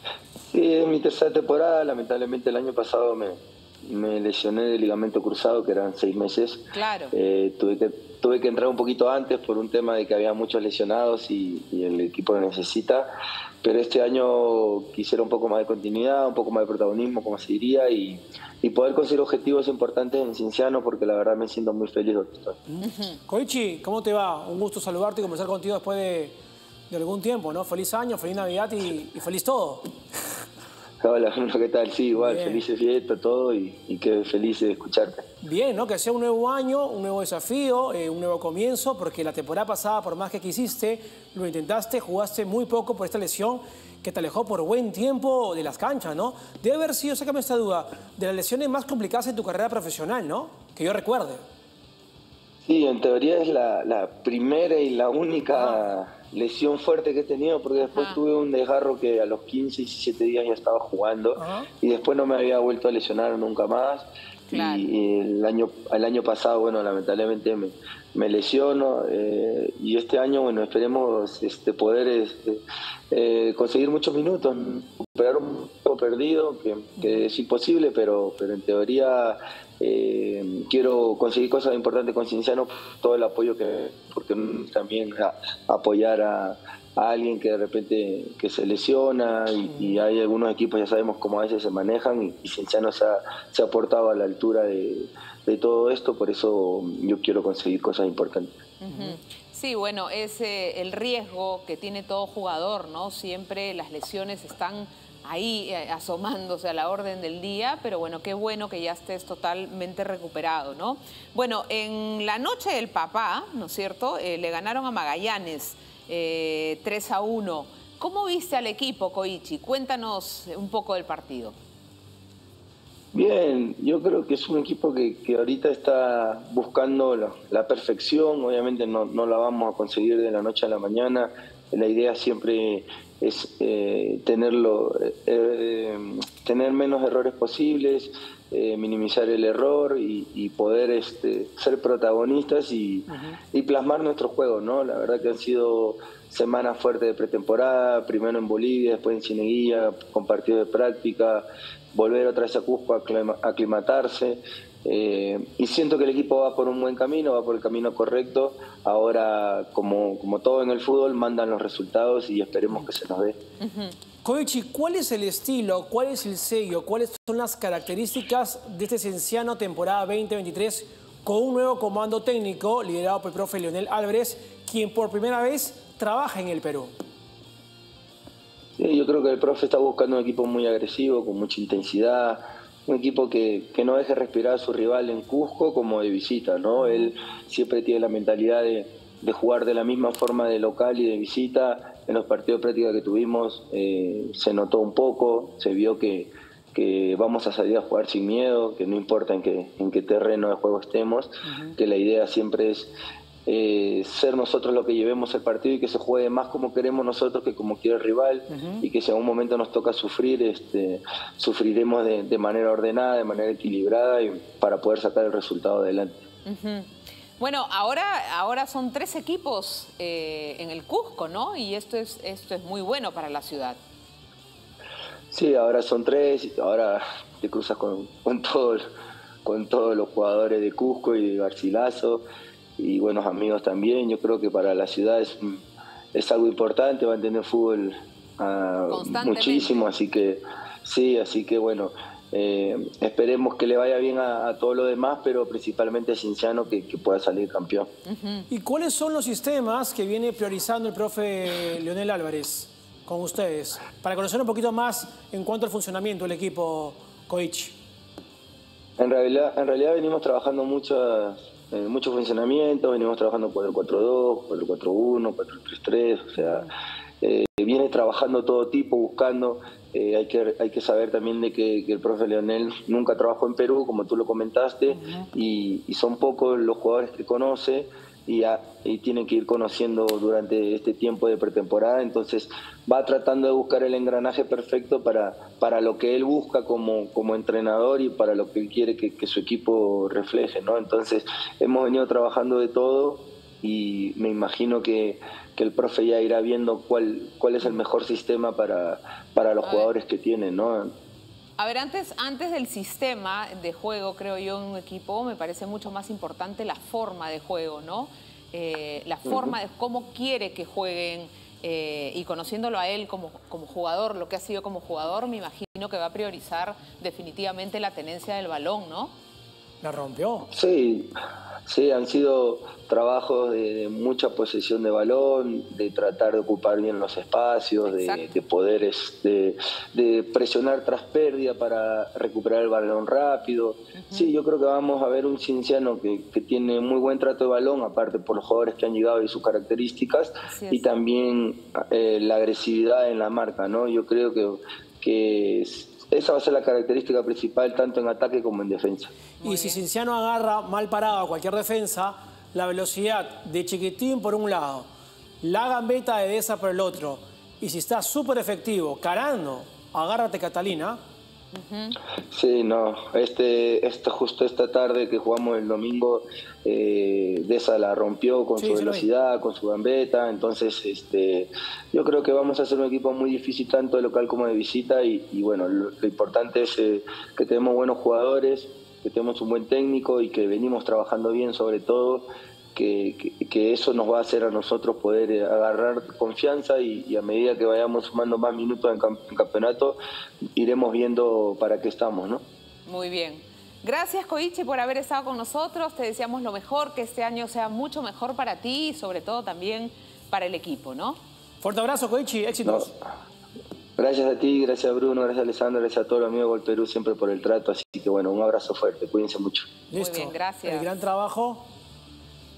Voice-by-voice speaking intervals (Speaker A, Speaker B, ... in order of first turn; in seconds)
Speaker A: 0.5-13.1, 13.6-22.6, 31.0-35.2, 52.6-98.5, 123.1-163.4, 178.8-202.9, 203.5-216.2, 225.3-228.8, 229.4-232.2, 232.8-247.9, 259.0-266.7, 267.2-300.9, 309.3-309.6, 320.5-321.1, 321.7-349.1, 362.3-390.0, 390.6-392.4, 402.6-402.9, 404.0-409.7
Speaker B: 6.7-7.1, 22.8-23.2, 57.8-58.2, 64.5-64.9, 98.8-121.5, 163.6-164.0, 216.4-223.8, 238.9-239.9, 248.1-248.5, 299.6-299.9, 301.6-319.1, 327.8-328.3, 333.9-334.3, 340.4-341.0, 349.4-349.8, 361.5-362.0, 392.9-401.2, 409.9-410.9
Speaker C: 22.7-26.4, 26.9-29.9, 32.1-32.6, 35.4-51.4, 55.5-55.8, 61.4-61.7, 89.7-90.0, 98.9-99.2, 143.1-143.4, 164.2-176.9, 201.4-201.8, 208.5-208.8, 248.5-257.8, 266.4-266.7, 319.8-320.5, 349.4-354.9, 355.4-361.0, 368.6-369.1, 401.6-402.9, 409.9-411.7